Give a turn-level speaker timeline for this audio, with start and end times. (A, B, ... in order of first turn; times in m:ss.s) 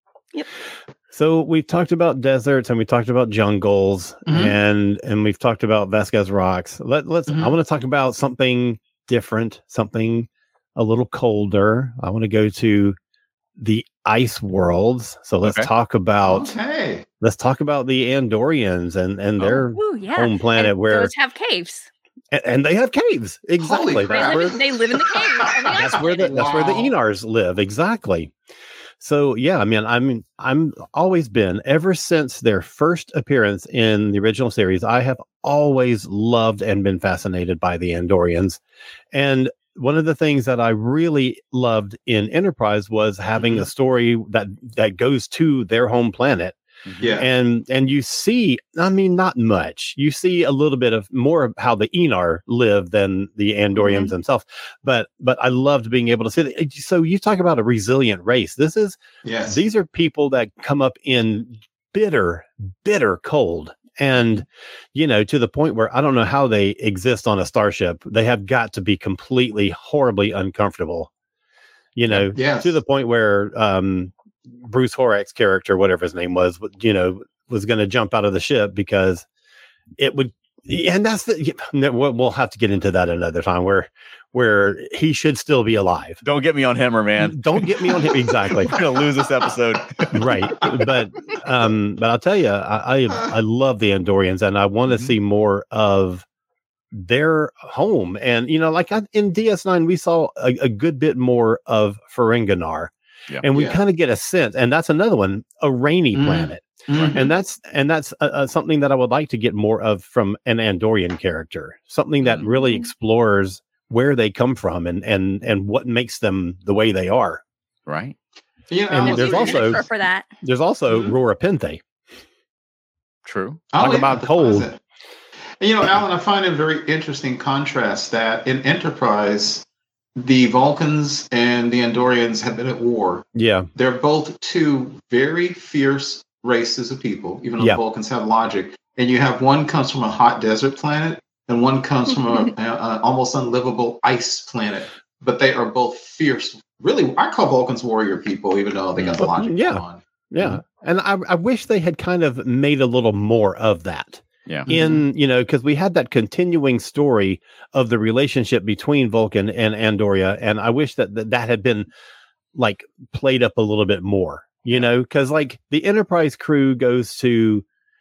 0:01.1-0:13.0 A
0:04.2-0:04.6 B
0:07.3-0:07.5 B
0:13.6-0:16.5 A
0:15.4-0:15.7 C
0:16.2-0:17.0 B
0:17.2-0:21.1 A
0:19.4-0:19.6 C
0:19.7-0:21.9 D
0:22.3-0:24.6 A
0:23.6-0:26.9 B
0:24.1-0:26.4 D
0:25.7-0:28.3 A
0:29.0-0:38.6 A
0:39.1-0:46.6 A
0:43.4-0:43.6 B
0:47.0-0:47.3 B
0:47.2-1:11.1 A
0:53.8-0:54.1 D
0:59.2-0:59.6 B
1:12.0-1:19.2 A
1:12.3-1:12.8 B
1:20.0-1:26.2 A
1:26.2-1:27.7 C
1:27.2-1:28.8 A
1:28.6-1:30.6 C
1:30.1-1:36.2 A
1:34.8-1:35.1 C
1:36.9-1:57.4 A
1:43.5-1:43.8 B
1:46.1-1:47.3 B
1:46.9-1:47.2 C
1:52.2-1:52.5 C
1:57.9-1:58.1 C
1:58.7-1:59.8 B
1:58.9-1:59.8 A
1:59.0-2:00.3 D
2:00.4-2:01.8 A
2:00.9-2:01.1 B
2:03.2-2:03.6 C
2:03.7-2:04.8 B
2:03.8-2:04.7 A
2:05.6-2:09.6 B
2:10.2-2:30.0 B
2:13.3-2:13.7 A
2:29.0-2:29.3 C
2:29.2-2:41.9 A
2:34.7-2:35.0 B
2:42.5-2:47.6 A